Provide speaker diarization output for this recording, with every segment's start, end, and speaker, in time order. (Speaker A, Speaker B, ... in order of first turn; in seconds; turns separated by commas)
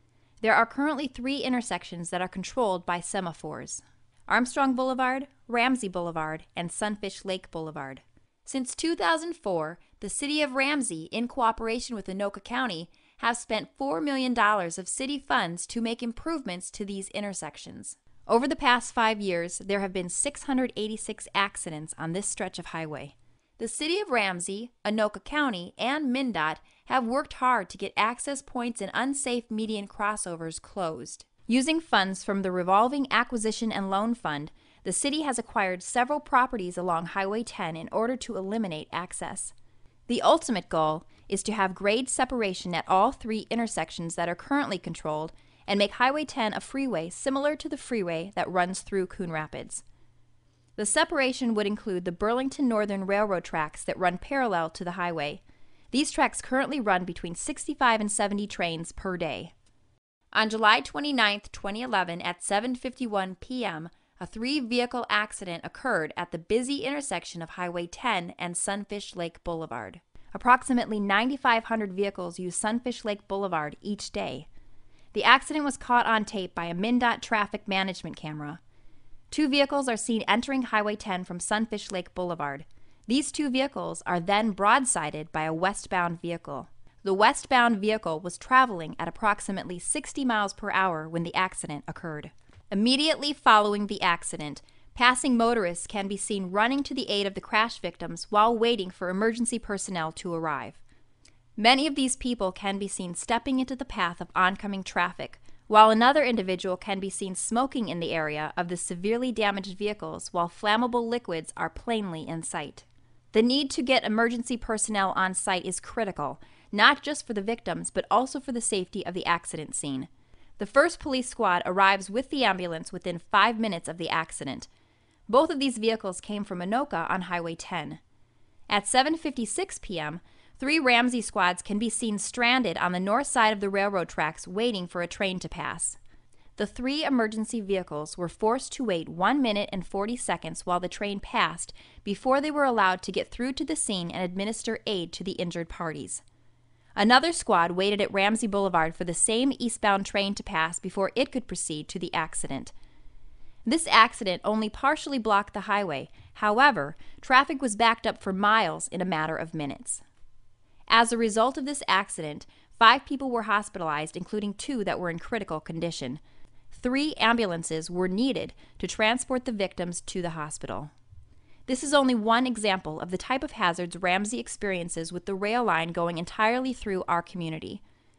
Speaker A: 0.4-39.5, Speaker A: 40.1-49.8, Speaker A: 50.8-59.5, Speaker A: 60.3-74.5, Speaker A: 75.1-78.6, Speaker A: 79.3-100.8, Speaker A: 101.6-124.7, Speaker A: 125.3-128.0, Speaker A: 128.7-136.0, Speaker A: 136.6-146.2, Speaker A: 147.0-152.7, Speaker A: 153.7-160.0, Speaker A: 160.9-170.9, Speaker A: 171.7-177.8